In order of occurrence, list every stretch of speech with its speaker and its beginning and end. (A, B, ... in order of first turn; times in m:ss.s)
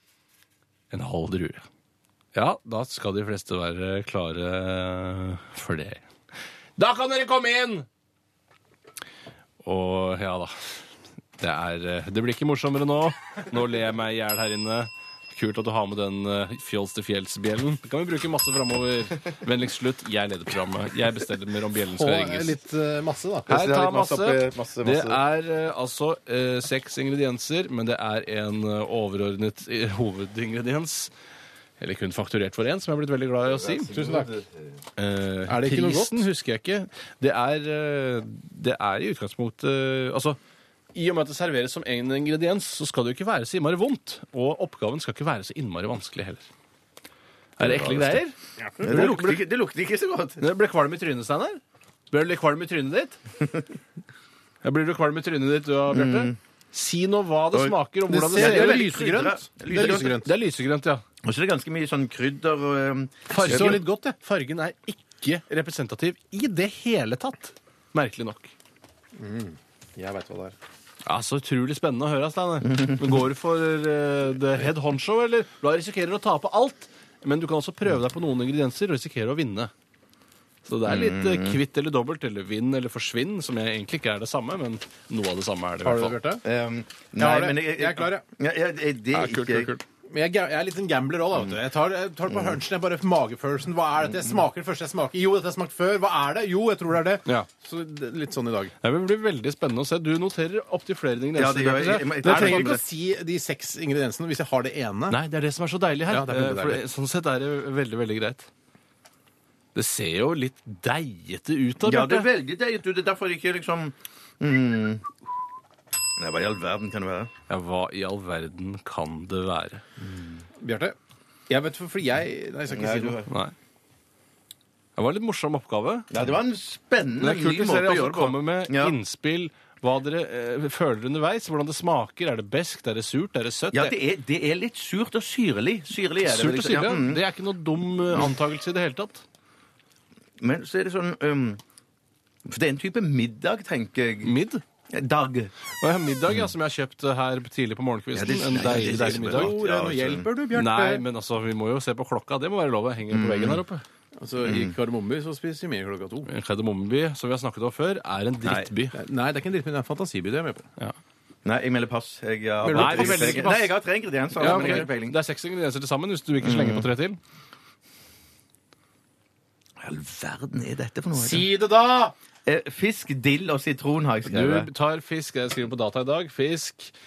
0:00.9-0:01.6 A
0:02.3-0:06.0 A
0:06.8-0:07.8 A
0:09.6-0:10.7 A
0:11.4-0:22.6 A
0:21.9-0:23.5 B
0:23.5-0:25.2 C
0:23.5-0:31.1 A
0:31.8-0:33.9 A
0:33.5-0:34.6 C
0:33.9-0:34.3 B
0:35.0-0:40.4 A
0:35.5-0:36.3 B
0:40.9-0:46.4 A
0:47.6-0:49.4 A
0:47.6-0:48.2 C
0:48.8-0:50.4 C
0:50.4-0:53.2 A
0:54.6-0:59.0 A
0:55.9-0:56.4 C
0:58.1-1:00.3 B
0:58.3-1:00.2 C
0:59.7-1:01.0 A
1:01.2-1:03.8 C
1:03.3-1:04.0 B
1:03.3-1:08.5 A
1:09.2-1:10.5 B
1:11.0-1:19.7 A
1:12.6-1:13.2 C
1:20.6-1:26.2 A
1:20.9-1:21.6 C
1:25.8-1:26.4 B
1:26.4-1:29.7 C
1:27.2-1:28.2 B
1:29.1-1:29.8 A
1:30.1-1:38.7 B
1:38.8-1:42.8 A
1:41.3-1:42.8 C
1:42.2-1:45.2 B
1:45.1-1:48.5 A
1:46.1-1:46.8 B
1:49.7-1:52.3 A
1:51.8-1:55.0 C
1:56.2-1:57.3 C
1:57.5-1:59.8 A
2:00.0-2:00.3 C
2:00.6-2:00.9 B
2:01.5-2:03.2 B
2:02.7-2:03.3 C
2:03.3-2:03.5 A
2:05.0-2:06.1 A
2:06.1-2:09.0 C
2:07.2-2:13.9 A
2:13.7-2:17.2 C
2:16.2-2:19.2 A
2:20.4-2:21.6 C
2:22.4-2:24.4 C
2:24.2-2:24.6 A
2:24.9-2:25.5 C
2:25.8-2:29.5 A
2:28.1-2:30.2 C
2:29.1-2:31.0 B
2:30.5-2:33.8 A
2:33.1-2:33.6 C
2:34.2-2:36.3 B
2:34.4-2:34.7 C
2:36.3-2:39.0 A
2:38.4-2:38.7 C
2:38.9-2:40.7 B
2:41.4-2:45.2 C
2:42.6-2:43.5 B
2:42.7-2:43.8 A
2:44.4-2:47.2 A
2:44.4-2:44.9 B
2:46.4-2:46.9 C
2:49.8-2:51.4 C
2:51.2-2:52.1 B
2:52.4-2:54.7 C
2:54.3-2:56.9 A